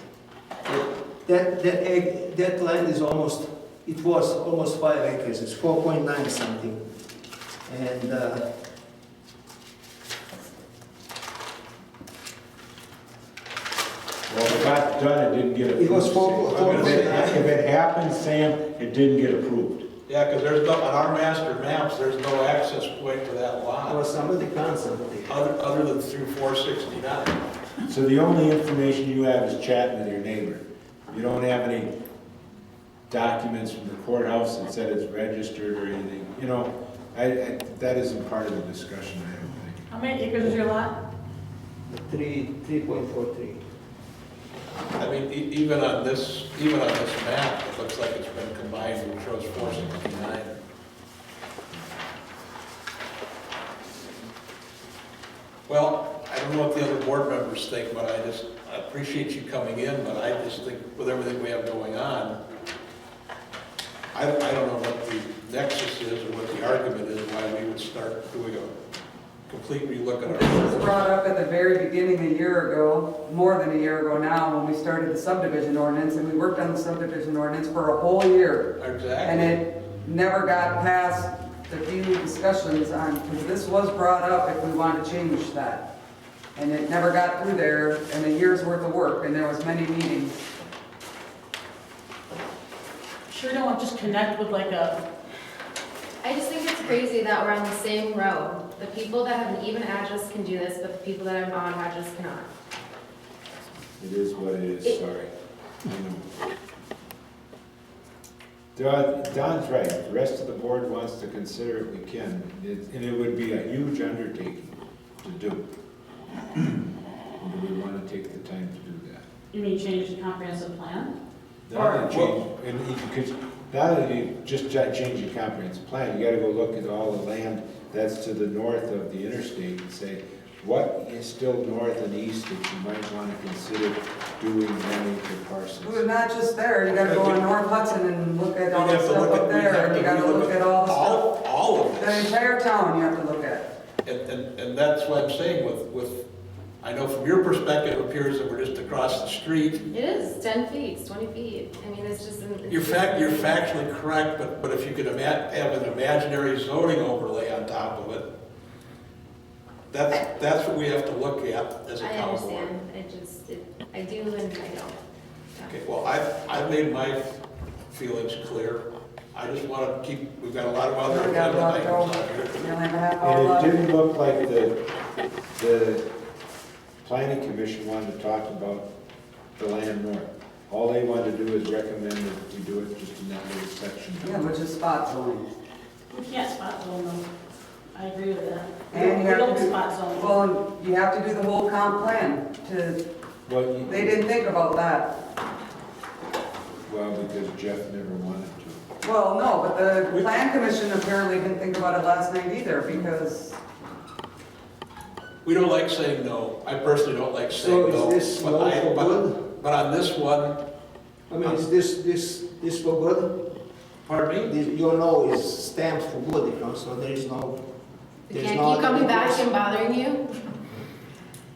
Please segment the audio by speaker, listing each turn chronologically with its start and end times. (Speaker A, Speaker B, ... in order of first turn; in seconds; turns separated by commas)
Speaker A: 0.7-6.9, Speaker A: 7.7-8.4, Speaker B: 14.3-19.9, Speaker A: 15.8-17.5, Speaker C: 16.6-17.4, Speaker C: 20.1-24.0, Speaker A: 23.9-25.4, Speaker C: 25.3-27.4, Speaker B: 27.9-31.9, Speaker B: 33.1-39.9, Speaker D: 39.9-41.0, Speaker A: 41.9-43.6, Speaker C: 45.0-50.6, Speaker B: 49.6-50.2, Speaker C: 55.7-62.4, Speaker C: 64.1-68.8, Speaker C: 69.5-71.1, Speaker E: 70.2-85.9, Speaker C: 78.8-79.6, Speaker E: 86.5-90.4, Speaker D: 93.3-95.0, Speaker F: 96.2-102.5, Speaker B: 104.0-105.3, Speaker B: 105.9-106.2, Speaker B: 108.8-115.6, Speaker B: 116.5-119.2, Speaker D: 119.5-121.1, Speaker B: 121.7-136.1, Speaker D: 121.7-122.3, Speaker E: 135.8-141.3, Speaker C: 137.0-137.4, Speaker C: 138.7-142.3, Speaker E: 141.9-143.7, Speaker C: 144.1-146.3, Speaker C: 146.8-149.9, Speaker F: 149.9-153.6, Speaker C: 152.7-158.3, Speaker C: 159.9-162.7, Speaker F: 162.0-165.0, Speaker C: 165.7-168.8, Speaker C: 169.3-172.6, Speaker E: 171.0-173.8, Speaker B: 173.2-174.8, Speaker B: 175.5-176.1, Speaker B: 177.0-178.9, Speaker B: 179.6-184.6, Speaker E: 184.2-185.5, Speaker D: 186.1-187.2, Speaker D: 187.9-190.4, Speaker E: 188.9-193.0, Speaker B: 193.5-194.4, Speaker E: 193.9-195.1, Speaker B: 196.9-198.8, Speaker E: 199.0-203.6, Speaker C: 200.1-200.5, Speaker C: 205.4-210.6, Speaker A: 207.5-209.4, Speaker A: 211.3-213.4, Speaker C: 214.1-214.5, Speaker A: 214.4-217.6, Speaker A: 218.3-219.5, Speaker F: 218.3-220.3